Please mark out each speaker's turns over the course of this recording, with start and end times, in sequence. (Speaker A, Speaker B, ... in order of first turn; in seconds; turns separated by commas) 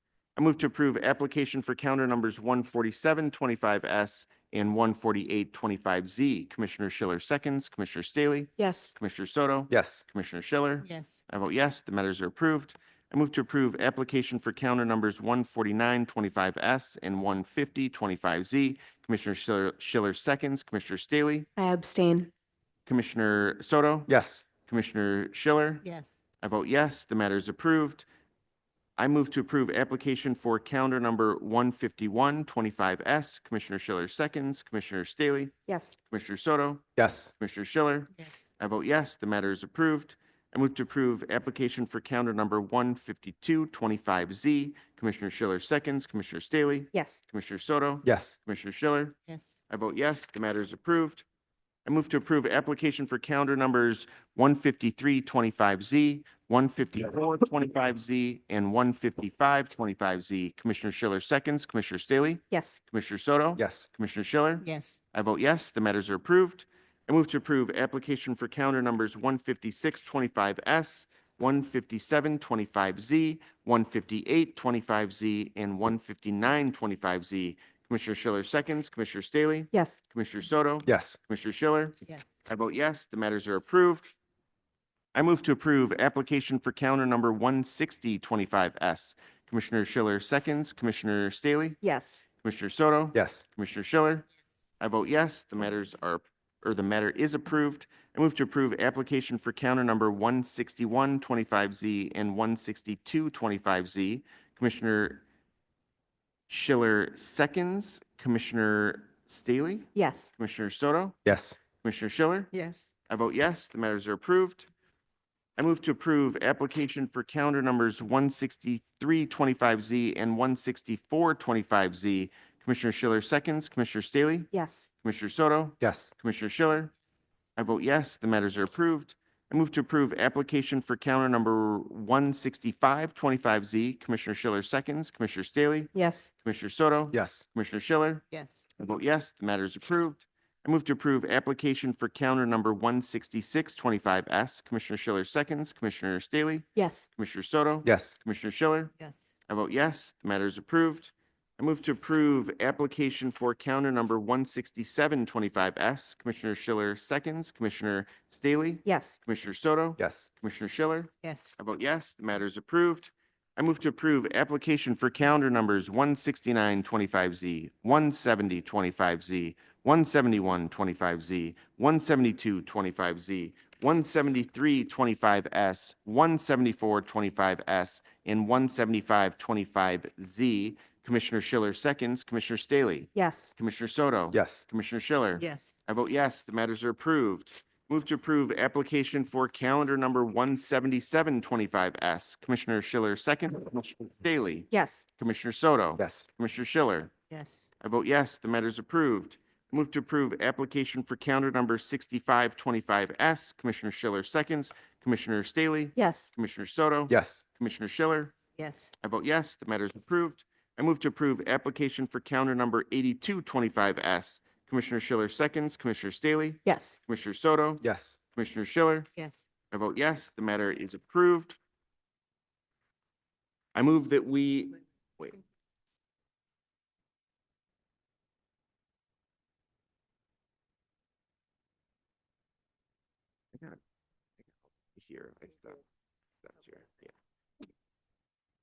Speaker A: 0.4-21.5, Speaker B: 8.6-8.9, Speaker C: 9.7-10.0, Speaker D: 10.8-11.2, Speaker B: 21.6-22.3, Speaker A: 22.9-25.8, Speaker C: 24.1-24.4, Speaker D: 25.8-26.2, Speaker A: 26.4-28.1, Speaker A: 29.0-49.2, Speaker B: 35.7-36.0, Speaker C: 37.0-37.3, Speaker B: 46.9-47.2, Speaker C: 48.0-48.4, Speaker A: 49.7-51.2, Speaker A: 51.9-84.1, Speaker B: 62.5-62.8, Speaker C: 63.6-63.9, Speaker D: 64.6-65.0, Speaker B: 79.7-80.0, Speaker C: 80.9-81.2, Speaker A: 85.1-91.8, Speaker B: 91.8-92.2, Speaker A: 92.3-94.3, Speaker C: 93.1-93.4, Speaker A: 94.8-105.2, Speaker A: 106.5-111.2, Speaker B: 110.0-110.3, Speaker C: 111.2-111.6, Speaker A: 111.8-112.5, Speaker D: 112.5-112.9, Speaker A: 113.1-114.7, Speaker A: 115.6-126.9, Speaker B: 124.5-124.9, Speaker C: 125.8-126.1, Speaker A: 127.6-138.2, Speaker B: 135.9-136.3, Speaker C: 137.1-137.4, Speaker D: 138.3-138.7, Speaker A: 138.8-148.9, Speaker B: 146.8-147.1, Speaker C: 147.8-148.2, Speaker D: 149.0-149.3, Speaker A: 149.5-197.1, Speaker B: 158.8-159.2, Speaker C: 160.0-160.3, Speaker D: 161.2-161.6, Speaker B: 183.2-183.5, Speaker C: 184.3-184.6, Speaker D: 185.4-185.7, Speaker B: 194.7-195.1, Speaker C: 196.0-196.3, Speaker D: 197.3-197.7, Speaker A: 197.8-208.3, Speaker B: 206.0-206.3, Speaker C: 207.1-207.4, Speaker D: 208.6-208.9, Speaker A: 209.0-219.1, Speaker B: 216.7-217.0, Speaker C: 217.8-218.2, Speaker D: 219.2-219.5, Speaker A: 219.7-221.6, Speaker A: 223.7-225.4, Speaker A: 234.9-235.8, Speaker A: 236.4-237.1